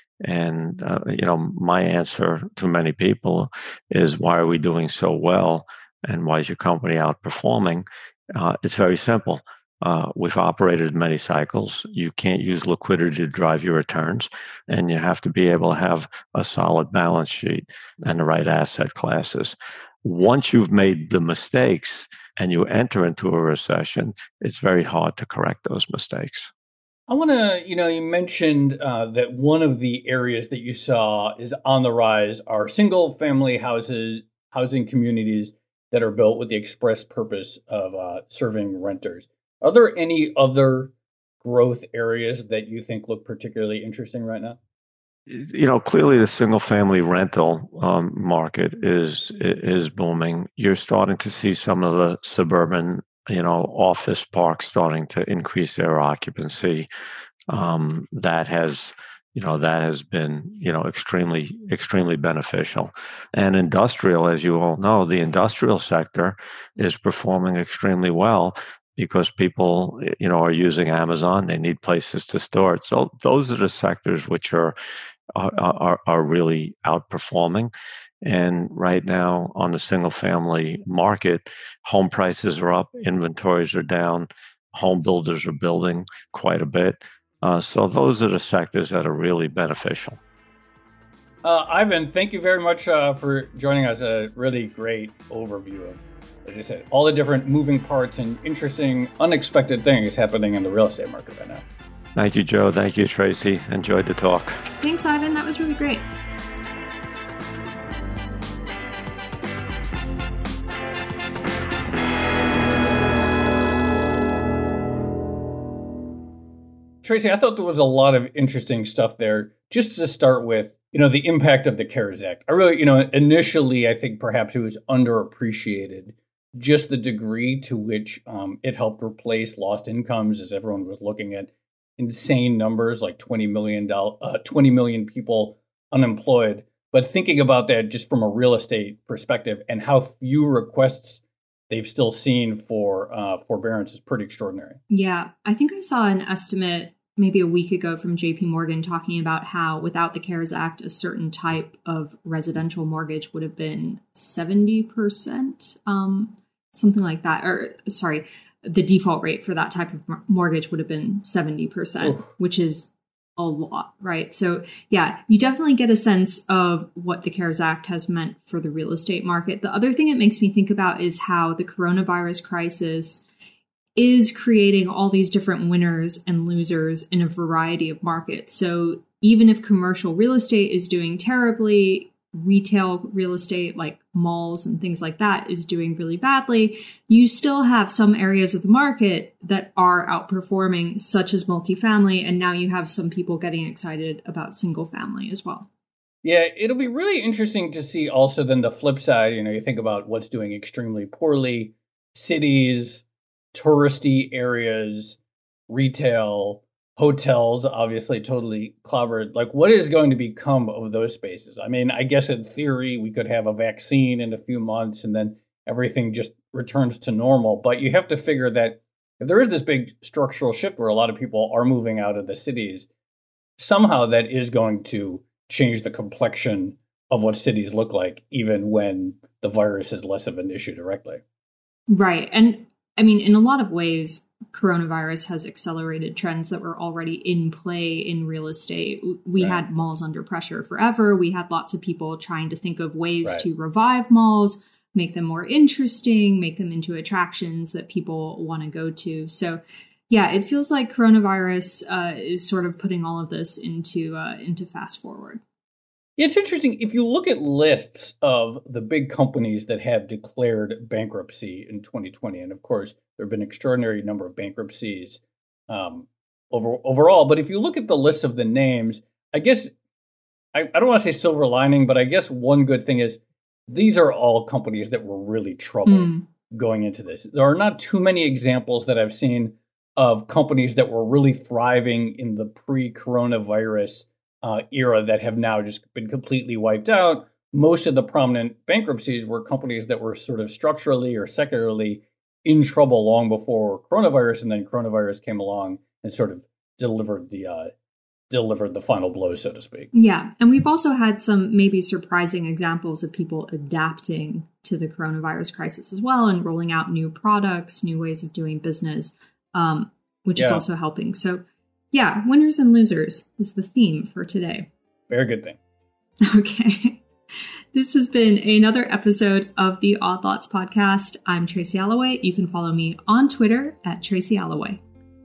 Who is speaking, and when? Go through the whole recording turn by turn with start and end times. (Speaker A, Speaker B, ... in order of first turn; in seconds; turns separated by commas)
Speaker A: 0.2-26.5, Speaker B: 27.1-44.6, Speaker A: 45.3-56.9, Speaker A: 57.5-74.7, Speaker A: 75.3-77.7, Speaker A: 78.2-90.2, Speaker B: 91.4-101.6, Speaker A: 102.2-104.6, Speaker C: 104.8-106.0, Speaker B: 117.0-144.8, Speaker C: 144.9-173.2, Speaker B: 162.0-162.3, Speaker C: 173.9-195.7, Speaker B: 196.2-222.9, Speaker B: 223.6-231.2, Speaker C: 231.9-255.4, Speaker B: 239.4-239.6, Speaker B: 256.2-269.7, Speaker B: 270.5-297.7, Speaker C: 275.9-276.2, Speaker B: 298.3-299.9, Speaker C: 299.9-314.7, Speaker B: 310.4-310.6, Speaker B: 315.1-315.6, Speaker C: 316.2-317.0, Speaker C: 317.7-324.8